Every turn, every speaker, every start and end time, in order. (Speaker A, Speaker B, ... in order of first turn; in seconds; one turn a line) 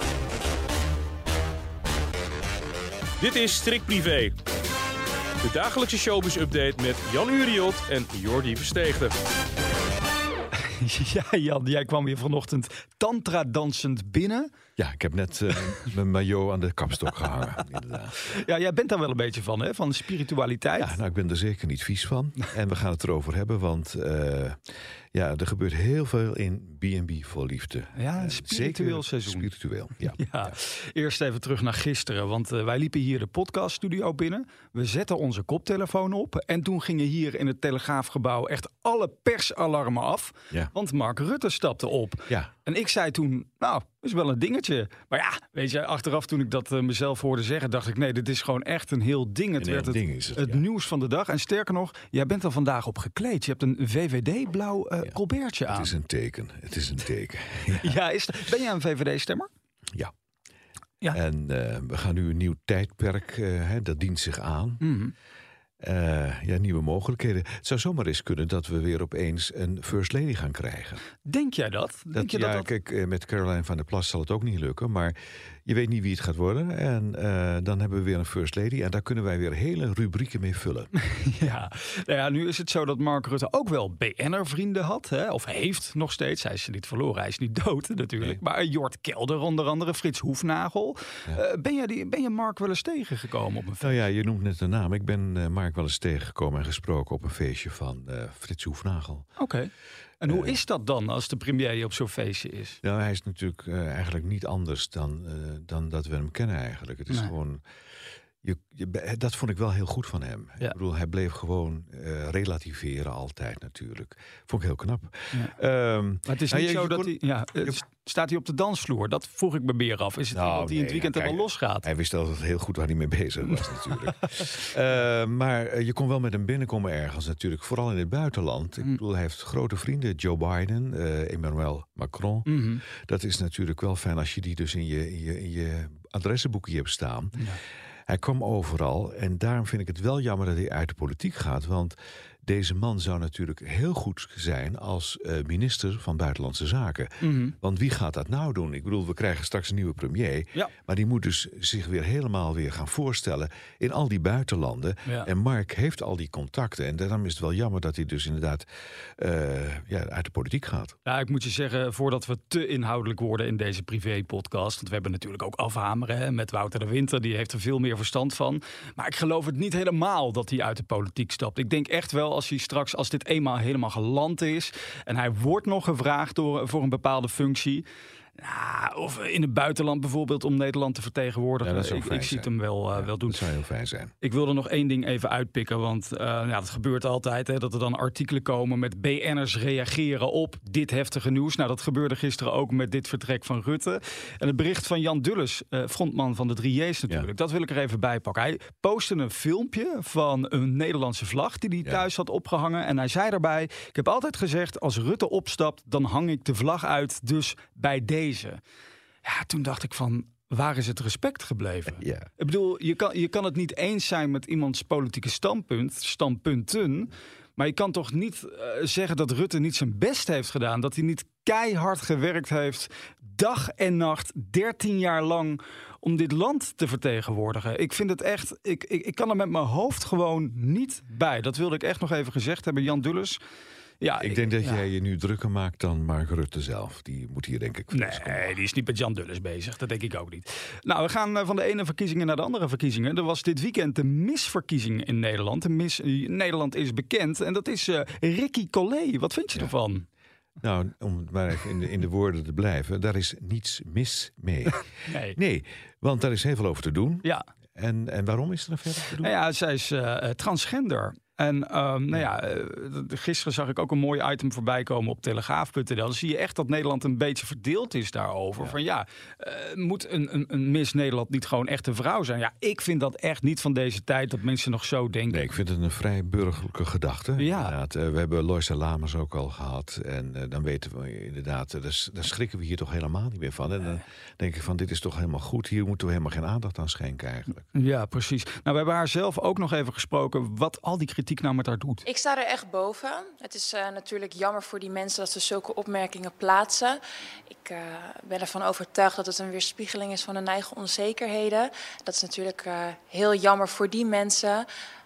Speaker A: 3.2-4.4
Speaker A: 5.4-9.2
Speaker B: 10.7-14.5
Speaker C: 14.8-18.3
Speaker B: 18.3-21.0
Speaker C: 20.8-24.6
Speaker C: 25.1-30.6
Speaker B: 28.0-29.5
Speaker B: 30.1-55.9
Speaker C: 49.6-50.6
Speaker C: 55.7-58.0
Speaker B: 57.8-59.5
Speaker C: 61.1-64.8
Speaker B: 64.8-65.1
Speaker C: 65.8-71.0
Speaker B: 71.3-72.7
Speaker C: 72.1-80.9
Speaker B: 81.0-94.0
Speaker C: 93.8-99.3
Speaker B: 99.4-99.7
Speaker B: 100.2-102.8
Speaker C: 100.2-100.6
Speaker C: 102.8-107.6
Speaker C: 108.4-117.8
Speaker B: 116.3-121.9
Speaker C: 120.3-137.4
Speaker B: 123.5-124.5
Speaker B: 132.5-132.8
Speaker C: 138.1-158.7
Speaker B: 147.2-147.6
Speaker C: 159.2-161.0
Speaker B: 161.1-177.9
Speaker B: 178.4-183.4
Speaker C: 181.6-184.1
Speaker B: 184.2-208.6
Speaker B: 209.2-233.4
Speaker C: 212.0-212.3
Speaker B: 234.0-234.8
Speaker C: 234.2-238.6
Speaker B: 237.9-250.1
Speaker C: 250.6-259.3
Speaker B: 255.1-255.4
Speaker B: 259.2-275.4
Speaker C: 275.3-287.7
Speaker B: 277.4-277.8
Speaker B: 287.7-292.1
Speaker D: 292.1-297.0
Speaker D: 297.5-304.7